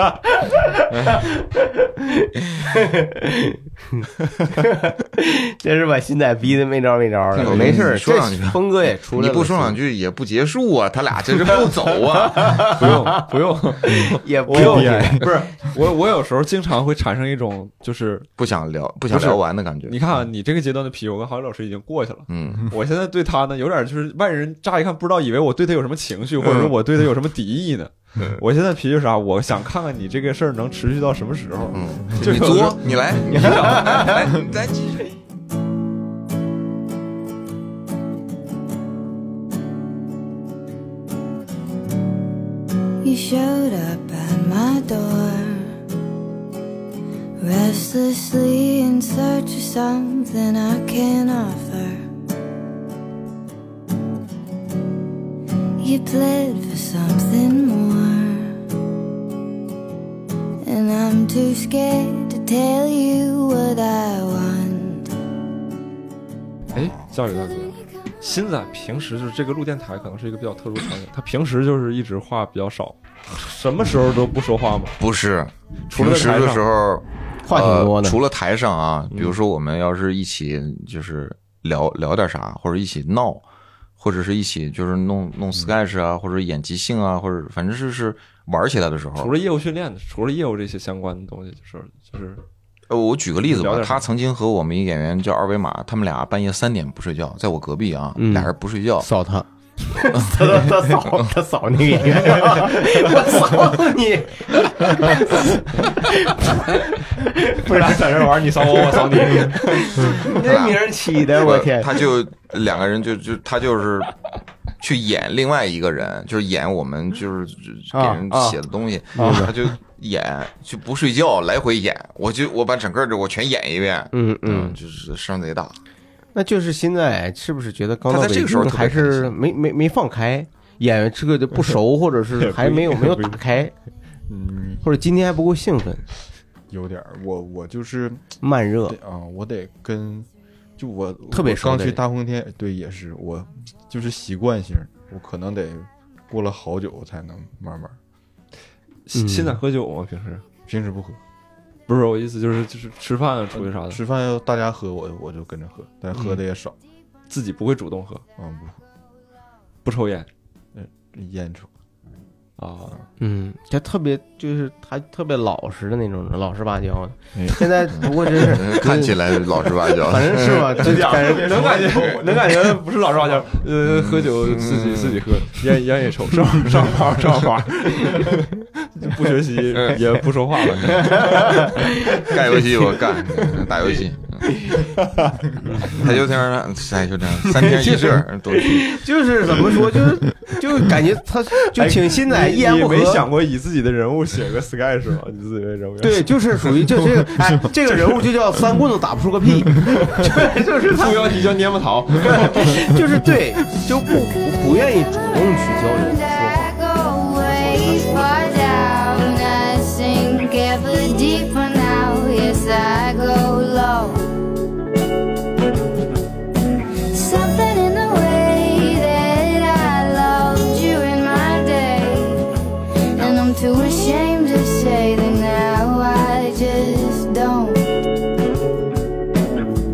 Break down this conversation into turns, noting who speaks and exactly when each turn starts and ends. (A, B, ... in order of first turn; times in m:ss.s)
0:00.2-0:09.8 A
0:07.3-0:12.8 B
0:11.4-0:13.2 A
0:12.7-0:18.3 C
0:13.8-0:15.4 A
0:13.9-0:15.3 D
0:18.4-0:20.0 B
0:19.1-0:34.3 C
0:22.3-0:22.7 B
0:26.4-0:26.7 B
0:31.7-0:35.1 B
0:33.3-0:34.3 A
0:43.0-0:45.8 E
0:47.4-0:52.1 E
0:55.8-0:58.6 E
1:00.6-1:05.1 E
1:06.7-1:15.0 C
1:15.0-1:23.4 B
1:15.9-1:16.6 C
1:17.4-1:18.2 A
1:19.1-1:19.4 C
1:24.0-1:29.3 B
1:29.2-1:32.4 C
1:32.9-1:39.1 B
1:33.5-1:34.0 C
1:38.2-1:48.0 A
1:40.2-1:41.2 B
1:47.5-1:50.2 C
1:48.8-1:52.1 A
1:50.1-1:54.2 B
1:54.8-2:05.8 B
1:57.9-1:58.6 A
1:59.1-1:59.5 A
1:59.2-1:59.5 D
2:04.1-2:04.8 A
2:06.3-2:13.7 A
2:08.1-2:09.4 B
2:12.3-2:13.4 C
2:14.3-2:14.8 D
2:14.8-2:16.0 A
2:16.7-2:28.0 D
2:18.4-2:19.0 A
2:21.3-2:22.0 A
2:29.0-2:30.4 C
2:29.1-2:29.6 A
2:30.6-2:31.2 D
2:31.9-2:34.0 C
2:33.5-2:36.8 D
2:37.3-2:38.2 C
2:38.4-2:38.8 D
2:39.8-2:40.3 C
2:40.7-2:41.7 D
2:42.6-2:43.0 C
2:43.2-2:52.2 A
2:47.3-2:47.8 C
2:47.9-2:51.1 B
2:50.8-3:01.8 C
2:51.1-2:52.2 D
2:53.8-2:55.3 B
2:59.7-3:00.0 B
3:00.7-3:04.7 B
3:00.9-3:02.6 A
3:04.7-3:06.1 C
3:05.6-3:06.2 A
3:05.8-3:09.1 B
3:07.4-3:13.2 A
3:11.7-3:16.7 C
3:16.0-3:21.4 A
3:17.0-3:17.5 D
3:20.9-3:22.8 C
3:22.2-3:26.7 A
3:26.0-3:34.2 E
3:27.6-3:28.4 A
3:37.1-3:42.5 E
3:43.1-3:47.8 E